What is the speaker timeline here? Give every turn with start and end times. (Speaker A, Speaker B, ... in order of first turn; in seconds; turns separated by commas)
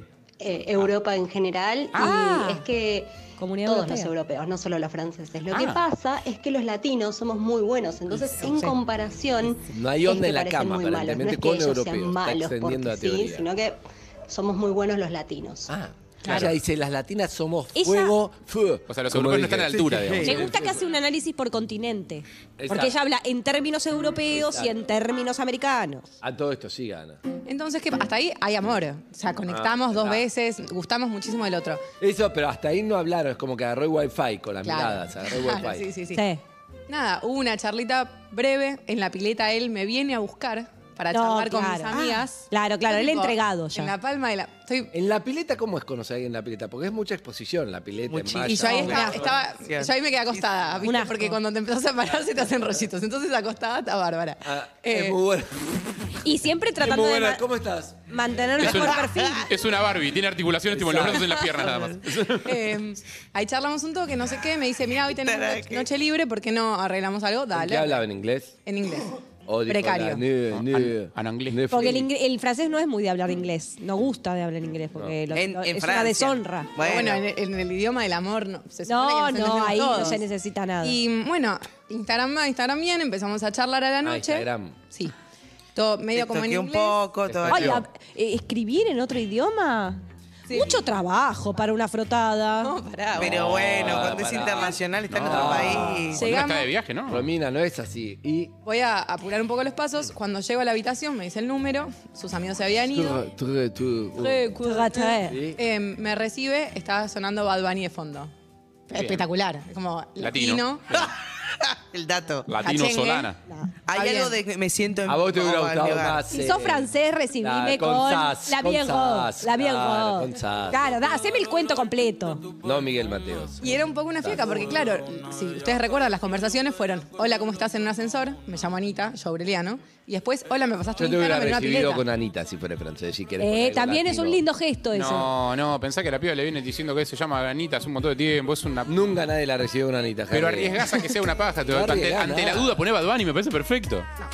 Speaker A: 0.4-15.7, Speaker B: 1.9-2.6, Speaker B: 3.4-4.1, Speaker C: 5.5-5.8, Speaker D: 8.2-8.5, Speaker B: 8.4-8.7, Speaker D: 9.7-13.5, Speaker D: 15.7-20.8, Speaker B: 17.8-18.1, Speaker C: 18.9-20.5, Speaker B: 20.2-26.1, Speaker D: 22.6-22.9, Speaker D: 24.3-24.7, Speaker D: 26.2-27.2, Speaker E: 27.4-31.8, Speaker D: 29.5-30.3, Speaker D: 32.0-35.9, Speaker E: 34.6-36.2, Speaker B: 36.1-36.4, Speaker E: 36.9-44.9, Speaker B: 41.1-43.9, Speaker D: 44.9-49.1, Speaker F: 48.1-50.4, Speaker E: 48.4-55.2, Speaker B: 48.8-49.1, Speaker B: 50.8-51.3, Speaker D: 54.4-56.2, Speaker B: 56.2-57.4, Speaker D: 56.8-58.7, Speaker B: 58.1-59.5, Speaker C: 58.6-62.4, Speaker F: 58.9-59.4, Speaker D: 60.7-62.4, Speaker E: 62.4-68.0, Speaker F: 65.2-65.9, Speaker D: 67.5-68.5, Speaker E: 68.7-69.1, Speaker D: 69.5-72.1, Speaker E: 69.7-70.2, Speaker C: 70.5-71.6, Speaker B: 71.7-76.7, Speaker F: 75.3-77.2, Speaker E: 76.8-80.2, Speaker B: 78.8-81.0, Speaker E: 80.8-85.1, Speaker D: 84.0-84.8, Speaker E: 85.7-87.0, Speaker F: 86.1-87.8, Speaker D: 87.2-87.8, Speaker B: 87.5-92.7, Speaker E: 90.5-90.8, Speaker E: 92.6-93.4, Speaker F: 93.1-96.2, Speaker D: 93.2-96.2, Speaker C: 95.1-95.6, Speaker E: 96.1-96.7, Speaker C: 96.1-97.3, Speaker D: 97.1-98.5, Speaker E: 98.6-103.2, Speaker D: 102.9-104.5, Speaker E: 104.2-108.3, Speaker B: 104.6-105.4, Speaker D: 105.2-105.6, Speaker E: 108.9-110.8, Speaker C: 108.9-109.2, Speaker C: 110.2-111.1, Speaker F: 110.9-112.5, Speaker C: 112.5-113.4, Speaker E: 112.6-113.3, Speaker F: 113.8-116.2, Speaker E: 113.9-114.3, Speaker D: 115.0-120.8, Speaker B: 116.3-122.5, Speaker D: 122.6-124.5, Speaker E: 123.6-132.1, Speaker D: 131.0-134.4, Speaker B: 133.4-135.3, Speaker C: 134.9-138.9, Speaker D: 138.8-141.0, Speaker C: 140.3-144.1, Speaker D: 141.6-142.8